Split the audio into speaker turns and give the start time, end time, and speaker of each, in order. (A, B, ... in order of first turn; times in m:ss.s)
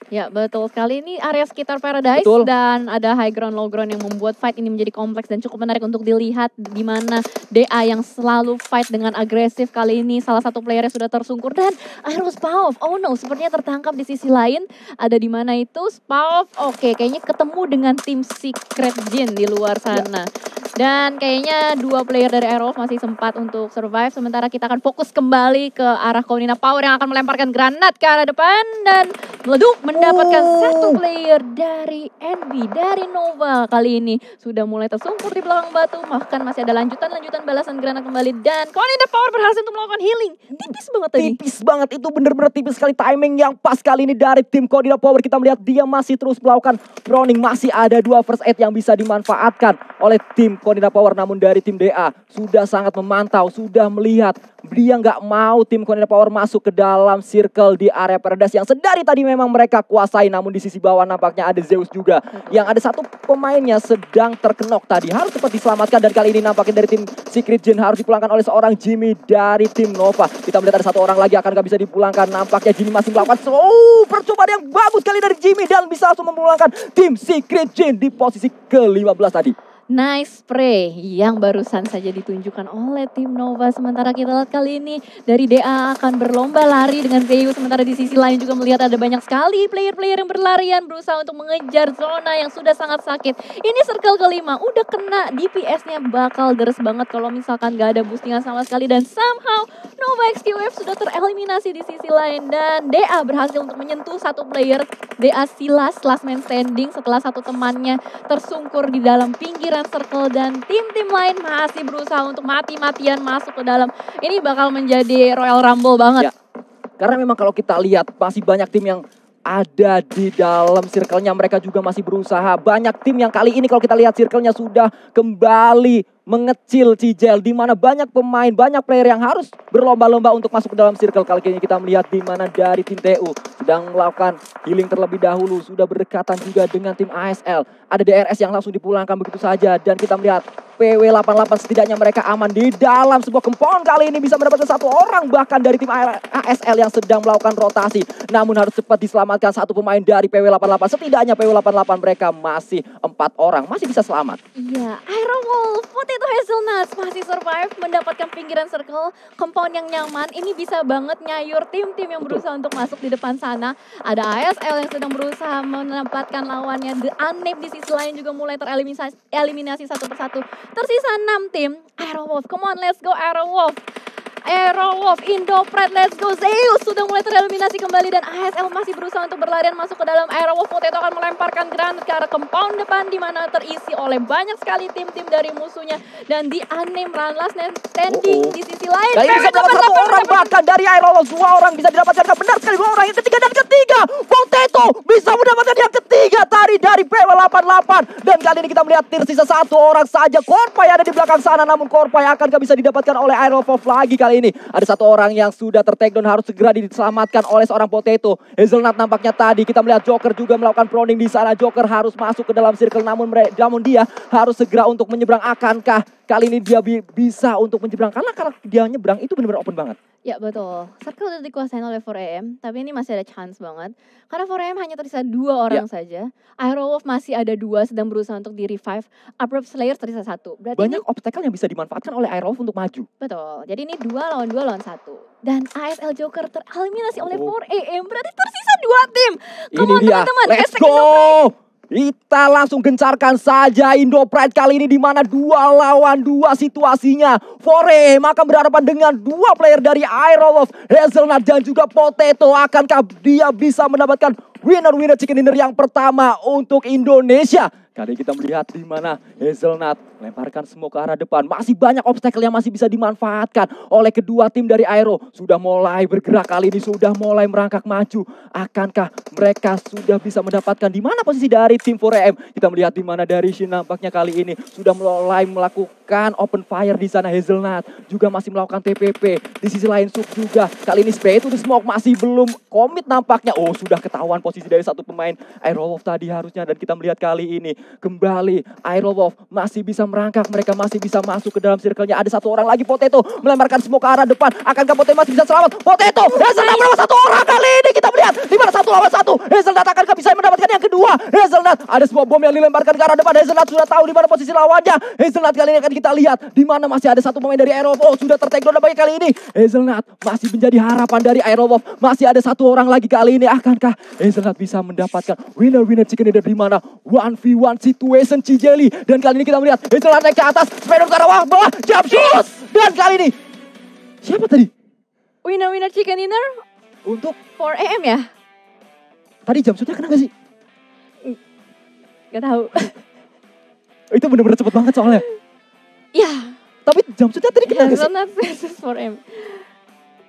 0:00.1-0:20.2 A
0:02.2-0:02.5 B
0:20.8-0:41.4 A
0:29.9-0:31.0 B
0:41.2-1:19.5 B
1:02.3-1:02.7 A
1:19.9-1:56.3 A
1:57.0-2:34.4 B
2:34.6-2:53.8 A
2:54.4-3:10.5 A
3:08.1-3:08.5 B
3:09.1-3:40.0 B
3:40.2-3:51.0 A
3:50.8-3:53.1 B
3:53.2-4:01.4 A
3:57.1-3:57.5 B
3:59.7-5:23.3 B
4:56.2-4:56.9 A
5:22.1-5:22.4 A
5:24.2-5:24.7 B
5:25.4-5:26.6 A
5:27.0-5:27.4 B
5:27.6-5:28.3 A
5:29.4-5:30.3 B
5:32.3-5:32.9 A
5:34.1-5:35.2 B
5:36.1-5:36.5 A
5:36.8-5:38.1 B
5:37.6-5:39.6 A